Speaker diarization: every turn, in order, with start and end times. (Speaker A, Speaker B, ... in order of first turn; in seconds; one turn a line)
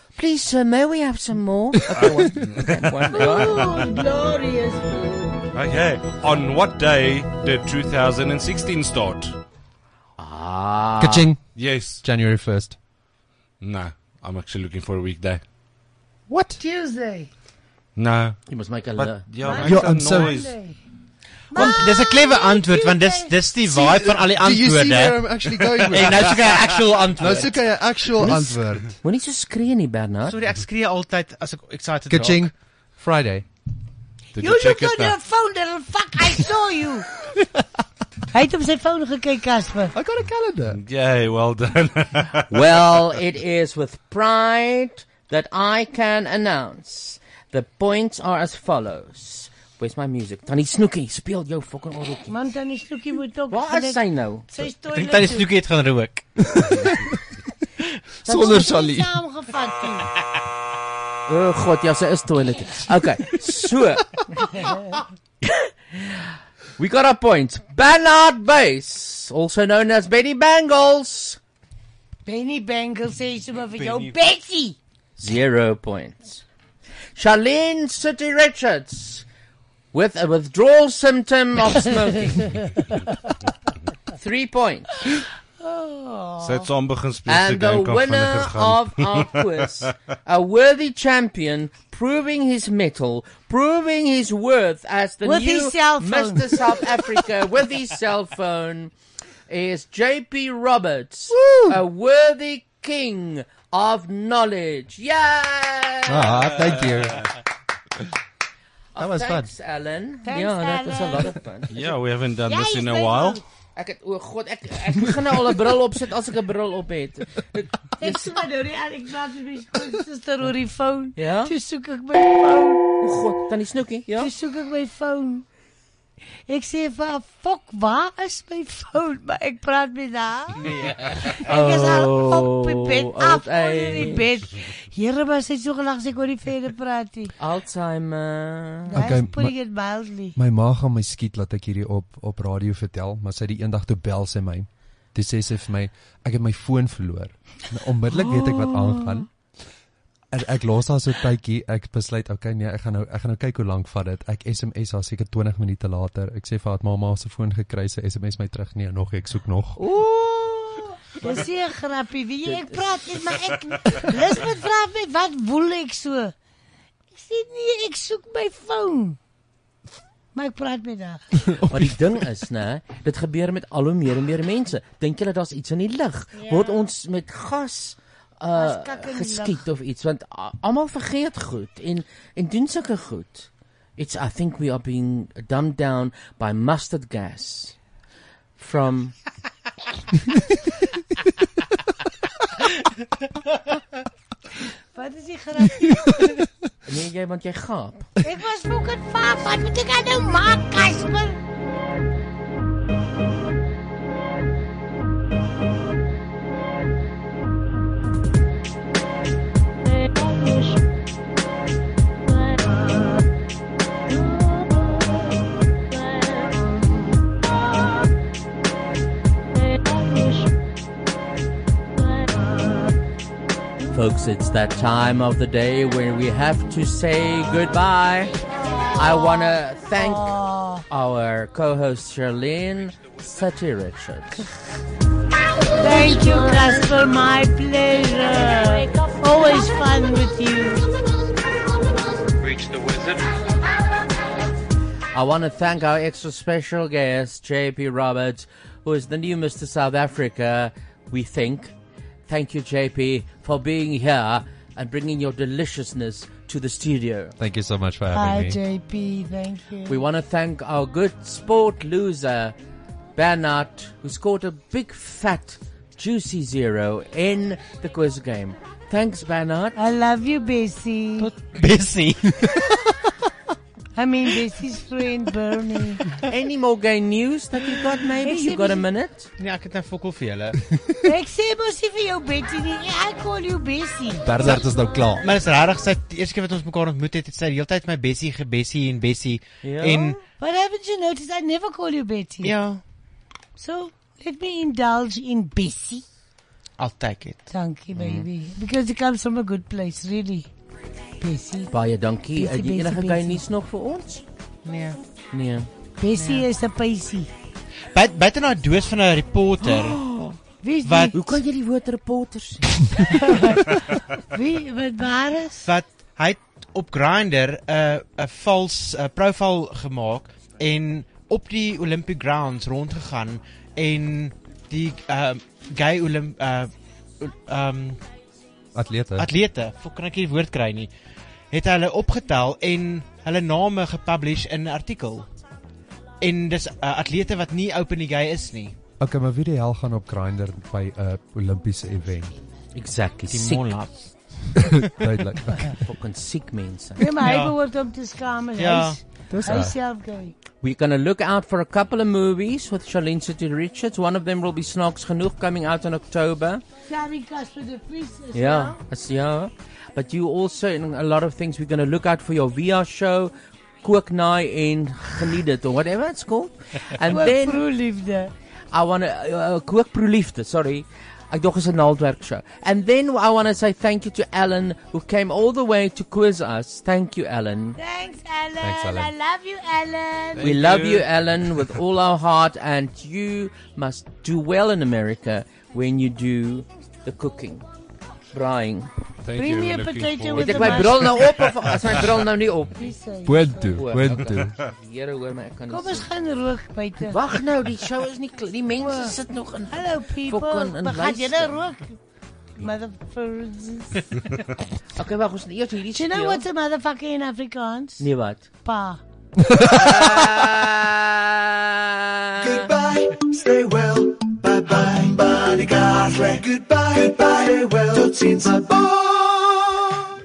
Speaker A: 0.1-3.6
Speaker B: 1.9-4.0
Speaker C: 3.1-5.4
Speaker B: 5.5-9.4
Speaker A: 10.2-11.3
Speaker D: 11.0-12.8
Speaker B: 11.5-12.1
Speaker B: 13.6-15.4
Speaker D: 16.3-16.6
Speaker C: 16.6-17.3
Speaker B: 17.9-18.4
Speaker A: 18.4-19.2
Speaker B: 18.9-20.6
Speaker C: 19.4-20.8
Speaker D: 19.6-20.3
Speaker C: 21.5-23.4
Speaker E: 21.5-25.3
Speaker D: 23.7-29.0
Speaker E: 25.9-27.7
Speaker A: 28.2-30.4
Speaker E: 30.2-32.5
Speaker D: 32.1-33.5
Speaker B: 34.4-35.2
Speaker C: 34.4-37.1
Speaker C: 38.3-39.9
Speaker D: 39.9-40.8
Speaker B: 40.7-43.1
Speaker A: 42.5-52.4
Speaker C: 52.3-55.5
Speaker A: 53.5-54.5
Speaker E: 55.0-56.3
Speaker D: 56.5-57.0
Speaker A: 58.2-58.9
Speaker D: 58.2-59.1
Speaker C: 58.3-60.1
Speaker A: 61.3-64.2
Speaker A: 65.4-71.4
Speaker C: 72.3-74.8
Speaker E: 73.7-74.2
Speaker A: 75.2-76.4
Speaker A: 77.2-79.2
Speaker A: 79.9-82.5
Speaker C: 82.5-83.2
Speaker A: 84.1-85.0
Speaker C: 85.6-86.7
Speaker B: 86.4-89.9
Speaker A: 87.3-98.9
Speaker C: 95.2-96.9
Speaker A: 99.5-106.8
Speaker D: 101.3-101.8
Speaker D: 106.1-107.3
Speaker B: 106.4-106.8
Speaker A: 109.0-111.7
Speaker D: 109.0-109.5
Speaker C: 110.2-111.4
Speaker B: 111.7-113.4
Speaker C: 112.5-113.4
Speaker A: 113.8-118.5
Speaker C: 118.0-122.9
Speaker A: 121.2-121.5
Speaker A: 123.0-124.3
Speaker C: 124.2-125.5
Speaker C: 126.5-130.6
Speaker A: 131.3-134.3
Speaker C: 131.4-137.3
Speaker A: 137.4-139.1
Speaker C: 138.9-140.4
Speaker D: 138.9-139.7
Speaker D: 140.3-149.3
Speaker A: 148.4-148.7
Speaker D: 150.3-159.8
Speaker A: 159.8-160.9
Speaker C: 161.2-166.3
Speaker A: 162.4-163.0
Speaker C: 167.1-169.2
Speaker C: 170.3-171.2
Speaker A: 171.7-187.8
Speaker C: 176.3-176.7
Speaker C: 178.6-179.6
Speaker A: 188.6-189.1
Speaker C: 194.9-196.0
Speaker A: 196.8-198.1
Speaker C: 198.2-201.4
Speaker A: 223.9-228.3
Speaker C: 228.7-230.8
Speaker A: 228.9-230.3
Speaker A: 230.9-234.5
Speaker C: 235.7-240.9
Speaker A: 245.1-251.7
Speaker A: 252.3-257.4
Speaker D: 257.4-258.6
Speaker C: 258.1-260.0
Speaker A: 259.9-262.6
Speaker A: 263.2-269.8
Speaker C: 269.8-271.3
Speaker E: 271.2-272.7
Speaker C: 273.9-276.0
Speaker A: 276.3-279.3
Speaker C: 278.2-278.9
Speaker E: 279.4-280.6
Speaker C: 281.0-284.2
Speaker D: 284.2-285.2
Speaker E: 284.4-284.6
Speaker E: 285.2-290.2
Speaker A: 289.6-290.2
Speaker C: 290.4-292.6
Speaker E: 292.4-292.8
Speaker C: 293.6-296.0
Speaker E: 296.8-297.4
Speaker C: 297.5-300.5
Speaker A: 297.9-298.3
Speaker C: 301.2-301.7
Speaker A: 301.7-304.2
Speaker C: 302.3-303.4
Speaker E: 304.6-305.0
Speaker A: 305.3-305.7
Speaker C: 306.0-307.3
Speaker E: 306.1-306.4
Speaker E: 307.9-310.0
Speaker A: 309.6-310.4
Speaker C: 310.6-311.2
Speaker E: 310.8-311.2
Speaker A: 311.1-312.8
Speaker C: 313.0-315.7
Speaker E: 315.6-328.0
Speaker D: 328.7-329.3
Speaker E: 329.2-330.9
Speaker E: 331.5-335.3
Speaker E: 336.2-338.8
Speaker D: 339.0-342.3
Speaker A: 342.7-343.7
Speaker E: 343.3-344.1
Speaker D: 344.7-345.8
Speaker A: 345.8-347.1
Speaker C: 347.0-350.3
Speaker E: 347.2-347.6
Speaker E: 348.6-349.0
Speaker D: 349.3-349.7
Speaker A: 350.6-356.6
Speaker C: 356.9-358.8
Speaker A: 358.3-367.6
Speaker C: 367.1-368.3
Speaker A: 368.7-377.8
Speaker C: 377.8-380.6
Speaker D: 378.6-379.1
Speaker B: 380.4-381.8
Speaker A: 380.4-387.6
Speaker A: 388.3-388.9
Speaker B: 389.2-392.2
Speaker C: 389.4-391.5
Speaker A: 390.4-392.8
Speaker C: 392.8-393.8
Speaker D: 393.2-394.5
Speaker A: 393.7-396.1
Speaker C: 395.7-397.2
Speaker A: 397.1-401.6
Speaker C: 398.8-399.2
Speaker C: 399.7-402.0
Speaker C: 402.6-404.0
Speaker A: 404.9-406.4
Speaker C: 405.9-408.1
Speaker A: 408.0-408.4
Speaker C: 408.6-409.0
Speaker A: 409.6-412.7
Speaker F: 412.4-420.0